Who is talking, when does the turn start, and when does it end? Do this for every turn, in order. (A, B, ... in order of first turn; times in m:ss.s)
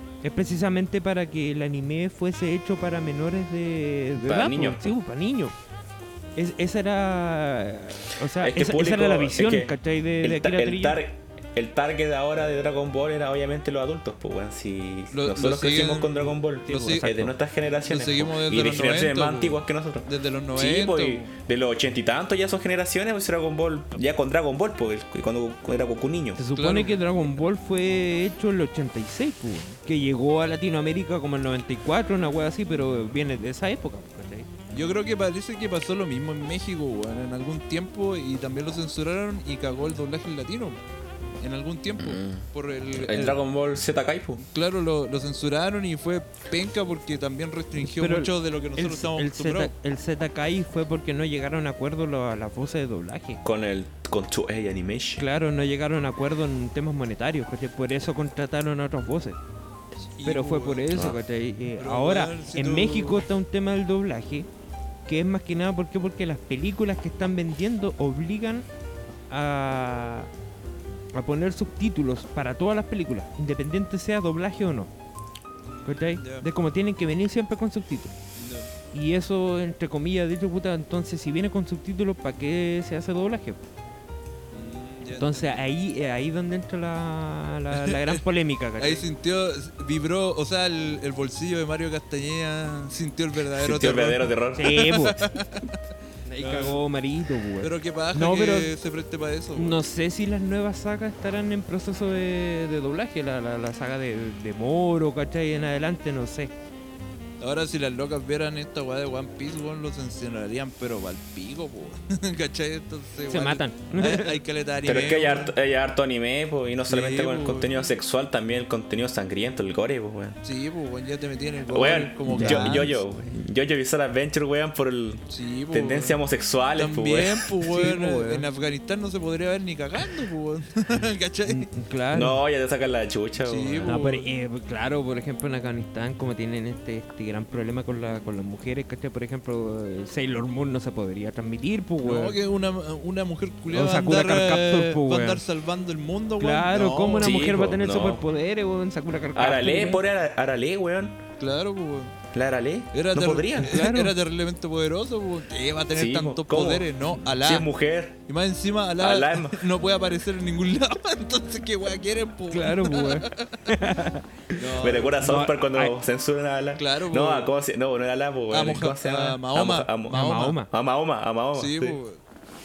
0:00.2-0:05.6 A
0:04.2-0:04.9 B
0:06.4-0:11.0 A
0:08.4-0:26.4 B
0:15.1-0:17.1 C
0:16.7-0:17.3 A
0:17.9-0:21.3 C
0:26.4-0:34.5 A
0:26.6-0:27.0 C
0:34.7-0:40.8 C
0:41.4-0:43.4 C
0:42.0-0:44.4 B
0:44.4-0:49.7 C
0:47.8-0:53.4 A
0:53.4-0:55.2 B
0:55.2-0:59.4 A
1:00.2-1:01.1 C
1:00.2-1:04.5 A
1:00.9-1:01.2 B
1:01.8-1:03.2 C
1:05.1-1:08.7 A
1:09.3-1:10.3 A
1:11.2-1:14.9 A
1:15.7-1:16.5 C
1:15.9-1:18.1 A
1:18.4-1:18.7 C
1:18.9-1:23.6 A
1:24.5-1:25.5 C
1:25.2-1:29.0 A
1:27.7-1:28.2 C
1:28.8-1:35.8 C
1:33.6-1:34.9 B
1:34.6-1:35.3 A
1:36.3-1:38.7 A
1:36.4-1:36.8 C
1:37.6-1:39.8 C
1:39.6-1:46.5 A
1:47.4-1:55.5 C
1:53.3-1:54.4 A
1:54.8-2:00.4 B
1:56.9-1:57.7 C
2:00.4-2:03.0 C
2:01.7-2:07.5 B
2:02.3-2:02.9 A
2:05.3-2:06.2 C
2:06.8-2:11.7 C
2:07.7-2:08.4 A
2:11.5-2:12.4 A
2:12.1-2:13.9 B
2:13.4-2:14.3 C
2:13.8-2:22.4 A
2:22.0-2:27.4 C
2:23.7-2:25.4 A
2:26.4-2:30.0 A
2:27.2-2:28.2 B
2:29.4-2:31.2 B
2:31.4-2:32.2 C
2:32.3-2:33.8 B
2:32.9-2:37.7 C
2:33.6-2:34.1 A
2:35.9-2:38.2 B
2:38.3-2:43.7 C
2:39.0-2:39.7 B
2:42.5-2:44.3 A
2:44.5-2:45.2 C
2:44.8-2:52.0 B
2:45.2-2:45.9 A
2:46.8-2:47.5 C
2:48.5-2:50.6 C
2:50.1-2:50.7 A
2:51.5-2:52.2 C